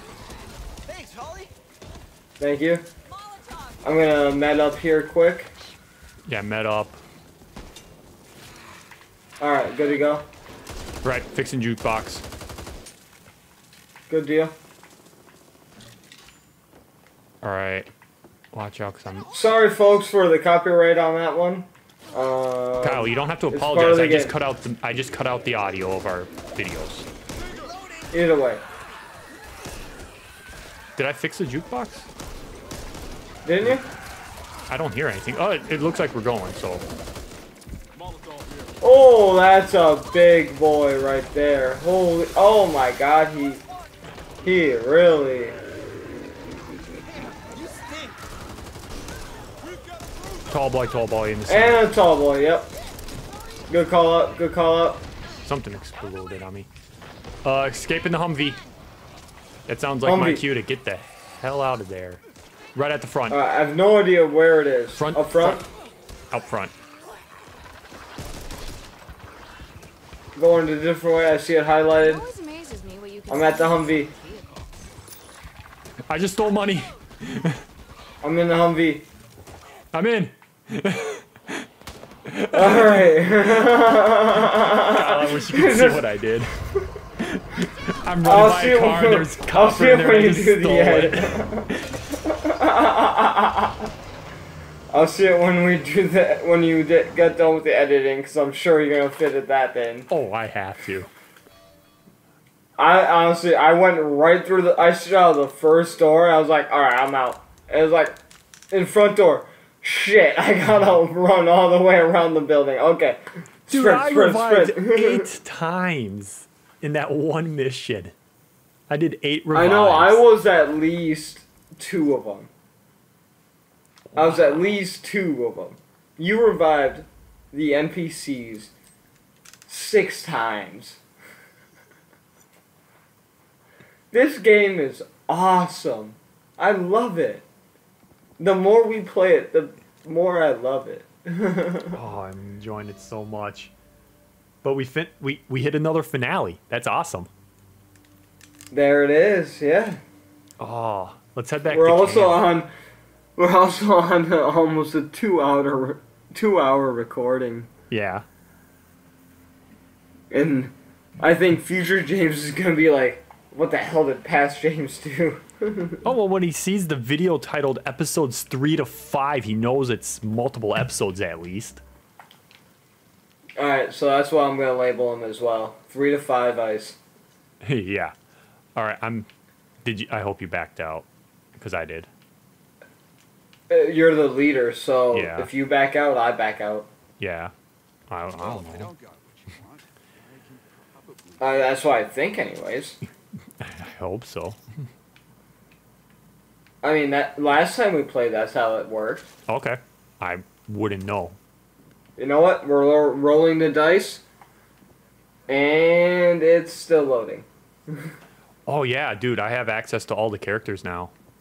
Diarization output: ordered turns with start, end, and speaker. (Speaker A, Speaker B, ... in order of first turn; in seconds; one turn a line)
Speaker A: 0.9-1.5
Speaker B: 2.4-2.9
Speaker B: 3.8-5.5
Speaker C: 6.2-7.0
Speaker B: 9.4-10.2
Speaker C: 11.0-12.2
Speaker B: 14.1-14.5
Speaker C: 17.4-17.9
Speaker C: 18.5-19.3
Speaker B: 19.3-24.4
Speaker C: 22.8-27.1
Speaker B: 28.1-28.6
Speaker C: 31.0-32.1
Speaker B: 33.5-33.8
Speaker C: 34.7-36.9
Speaker B: 38.8-43.6
Speaker B: 44.4-45.6
Speaker A: 47.2-48.2
Speaker A: 49.9-50.3
Speaker C: 50.5-51.9
Speaker B: 51.5-52.7
Speaker B: 53.7-55.0
Speaker C: 55.4-56.7
Speaker C: 57.4-58.6
Speaker C: 59.7-62.2
Speaker B: 60.0-60.5
Speaker C: 62.8-63.4
Speaker B: 63.3-65.6
Speaker C: 65.0-65.6
Speaker C: 66.3-66.7
Speaker B: 70.3-72.3
Speaker D: 72.0-74.6
Speaker B: 73.3-74.1
Speaker C: 76.1-77.6
Speaker B: 78.2-79.0
Speaker C: 79.9-81.7
Speaker C: 82.3-83.3
Speaker B: 82.5-86.0
Speaker C: 84.5-86.5
Speaker C: 87.2-91.9
Speaker B: 88.2-91.7
Speaker B: 92.2-93.9
Speaker B: 94.9-100.1
Speaker C: 100.1-101.1
Speaker B: 102.8-108.2
Speaker B: 108.7-115.3
Speaker C: 113.7-118.1
Speaker C: 118.9-120.2
Speaker B: 119.5-122.5
Speaker C: 124.1-124.8
Speaker B: 124.1-128.7
Speaker B: 129.7-131.0
Speaker B: 134.1-137.4
Speaker B: 138.4-142.0
Speaker C: 141.9-143.7
Speaker C: 144.6-147.3
Speaker B: 148.7-150.0
Speaker C: 150.6-152.4
Speaker B: 151.7-152.7
Speaker B: 153.4-157.7
Speaker C: 157.9-158.2
Speaker B: 160.3-166.0
Speaker C: 166.0-171.8
Speaker B: 173.6-177.0
Speaker C: 177.6-178.1
Speaker C: 178.8-179.3
Speaker C: 179.8-182.1
Speaker B: 183.7-186.9
Speaker C: 185.1-185.5
Speaker C: 187.2-187.5
Speaker C: 188.1-188.9
Speaker A: 188.4-191.5
Speaker B: 191.4-193.0
Speaker C: 193.6-194.6
Speaker B: 196.8-199.3
Speaker C: 199.5-201.4
Speaker B: 202.2-204.2
Speaker B: 205.5-208.1
Speaker C: 208.7-211.1